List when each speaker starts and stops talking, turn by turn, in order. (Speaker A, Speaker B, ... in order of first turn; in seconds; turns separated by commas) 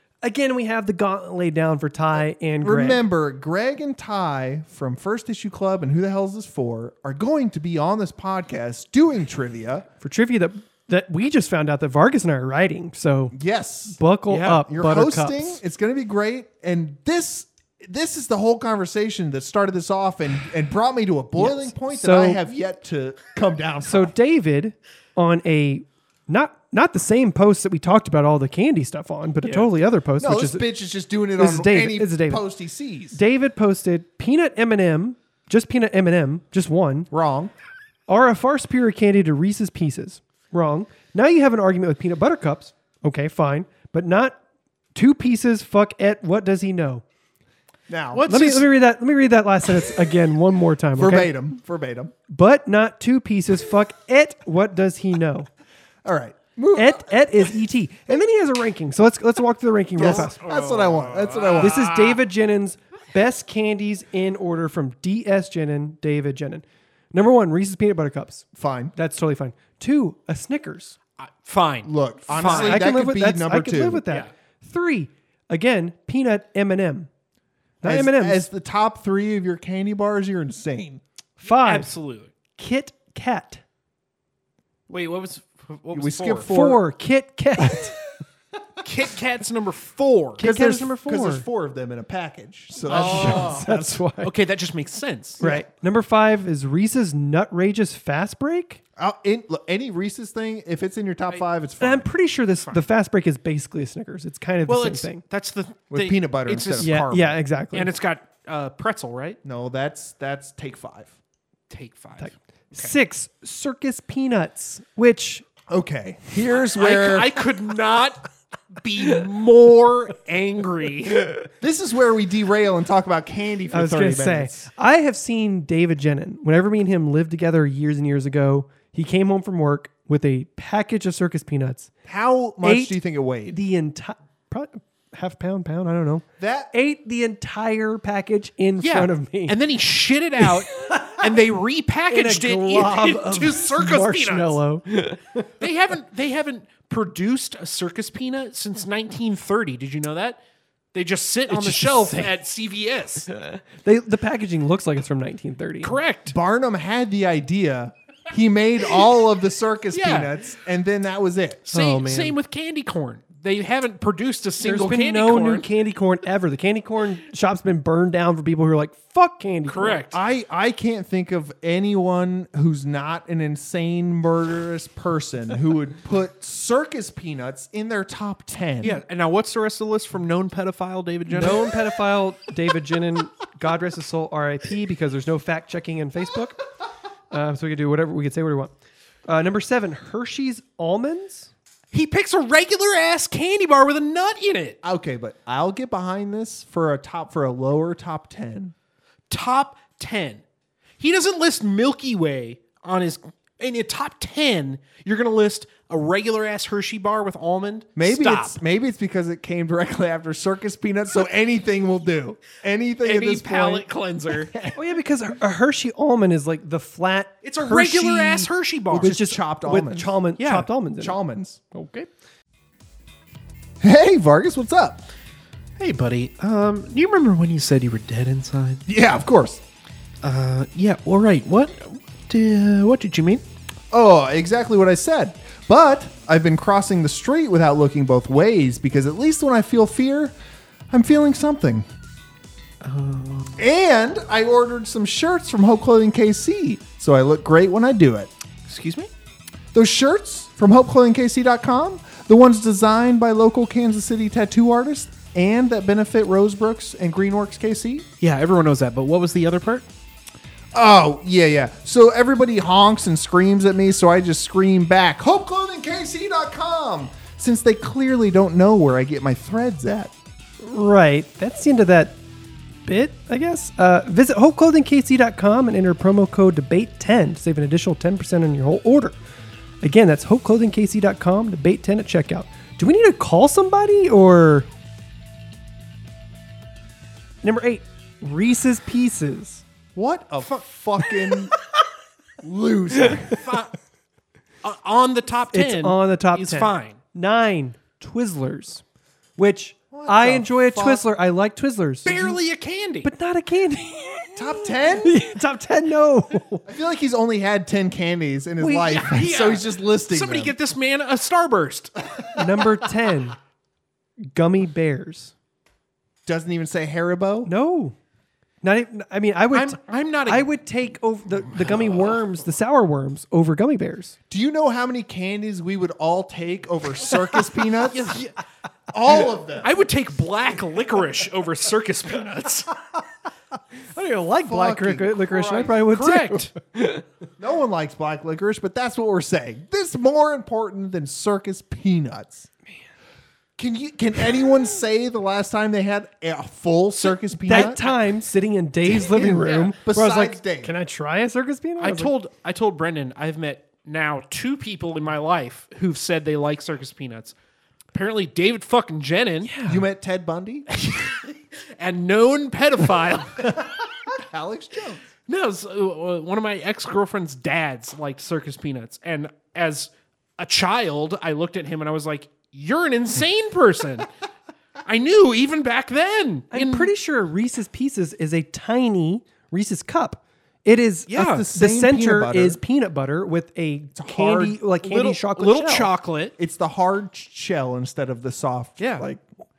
Speaker A: 0.2-3.1, Speaker B: 2.6-9.9, Speaker A: 10.0-13.3, Speaker B: 13.3-14.0, Speaker A: 13.9-15.6, Speaker C: 14.3-14.6, Speaker B: 14.5-24.1, Speaker A: 21.4-22.4, Speaker A: 23.8-30.7, Speaker B: 30.2-33.2, Speaker A: 31.4-32.4, Speaker A: 33.1-37.1, Speaker B: 37.1-37.5, Speaker A: 38.1-44.4, Speaker A: 44.9-47.0, Speaker B: 47.9-48.2, Speaker C: 48.1-48.6, Speaker A: 48.2-51.3, Speaker B: 51.0-52.1, Speaker A: 52.3-55.5, Speaker B: 56.0-57.4, Speaker A: 56.7-60.4, Speaker B: 60.0-62.2, Speaker C: 60.0-61.8, Speaker A: 61.6-71.0, Speaker B: 68.5-68.9, Speaker C: 71.2-72.8, Speaker B: 71.8-74.0, Speaker A: 72.4-77.1, Speaker A: 77.8-78.4, Speaker B: 77.8-81.0, Speaker A: 81.4-81.9, Speaker C: 81.5-82.3, Speaker A: 82.5-83.6, Speaker C: 84.9-86.5, Speaker B: 85.9-86.8, Speaker A: 86.5-87.9, Speaker C: 88.8-90.4, Speaker A: 90.4-91.5, Speaker B: 90.4-94.0, Speaker C: 92.8-95.4, Speaker A: 92.8-94.3, Speaker A: 95.4-98.8, Speaker B: 99.0-102.1, Speaker A: 101.8-105.2, Speaker C: 104.7-107.0, Speaker B: 105.9-107.4, Speaker A: 106.8-107.9, Speaker C: 107.7-109.4, Speaker B: 109.4-111.2, Speaker C: 111.7-112.9, Speaker A: 112.2-115.4, Speaker B: 115.7-117.4, Speaker C: 116.7-121.4, Speaker B: 121.6-124.6, Speaker A: 123.7-131.9, Speaker B: 132.1-133.6, Speaker A: 132.6-139.5, Speaker B: 136.4-136.7, Speaker C: 138.8-144.6, Speaker A: 140.7-141.2, Speaker A: 142.1-145.5, Speaker C: 145.6-150.4, Speaker C: 150.9-153.3, Speaker A: 151.5-152.3, Speaker A: 153.3-155.9, Speaker C: 155.8-156.3, Speaker B: 156.3-161.7, Speaker C: 159.9-160.3, Speaker C: 161.7-165.7, Speaker A: 161.7-162.4, Speaker A: 164.6-170.0, Speaker C: 169.7-170.2, Speaker B: 170.1-179.0, Speaker C: 178.8-181.7, Speaker A: 181.3-186.6, Speaker A: 187.3-188.7, Speaker A: 189.3-191.5, Speaker C: 191.9-194.8, Speaker B: 194.8-198.7, Speaker C: 199.3-200.4, Speaker C: 201.0-208.6, Speaker B: 207.9-213.8, Speaker C: 213.0-214.5, Speaker B: 214.5-214.8, Speaker A: 214.7-222.1, Speaker C: 217.4-219.2, Speaker B: 218.9-220.2, Speaker C: 220.4-220.7, Speaker B: 220.9-221.6, Speaker B: 223.8-225.0, Speaker C: 225.8-228.8, Speaker B: 228.9-229.6, Speaker C: 230.2-233.4, Speaker B: 233.9-240.3, Speaker B: 240.9-241.8, Speaker C: 242.8-243.6, Speaker B: 243.6-248.3, Speaker C: 248.7-249.1, Speaker B: 249.7-258.1, Speaker C: 258.2-259.9, Speaker B: 260.7-270.1, Speaker A: 270.6-272.2, Speaker A: 272.8-279.1, Speaker A: 279.8-284.7, Speaker A: 287.4-289.6, Speaker B: 289.9-291.5, Speaker B: 292.4-293.4, Speaker C: 293.3-293.7, Speaker C: 294.6-297.0, Speaker A: 295.5-298.8, Speaker A: 299.4-302.1, Speaker B: 299.9-301.0, Speaker C: 302.0-303.1, Speaker B: 302.1-302.4, Speaker A: 303.0-306.6, Speaker B: 304.4-305.2, Speaker B: 306.6-310.5, Speaker A: 308.6-309.0, Speaker C: 308.8-311.9, Speaker A: 312.3-313.4, Speaker A: 314.3-315.3, Speaker B: 316.2-317.5, Speaker A: 317.4-317.9, Speaker A: 318.6-324.1, Speaker C: 319.5-320.5, Speaker B: 324.3-328.1, Speaker C: 327.7-328.3, Speaker B: 328.9-329.8, Speaker C: 329.2-332.8, Speaker A: 333.9-337.1, Speaker B: 334.4-335.8, Speaker C: 335.9-336.5, Speaker B: 337.4-342.5, Speaker B: 343.6-347.8, Speaker C: 347.0-347.8, Speaker A: 347.5-352.1, Speaker B: 348.9-350.7, Speaker C: 351.8-357.3, Speaker C: 357.9-359.5, Speaker A: 359.4-359.8, Speaker B: 359.6-360.7, Speaker C: 360.7-363.5, Speaker B: 363.4-365.0, Speaker C: 365.3-374.1, Speaker C: 374.9-376.9, Speaker A: 376.5-385.9, Speaker C: 381.1-381.5, Speaker B: 381.1-382.6, Speaker B: 383.9-384.6, Speaker C: 384.8-386.3, Speaker B: 386.4-389.2, Speaker C: 388.8-389.1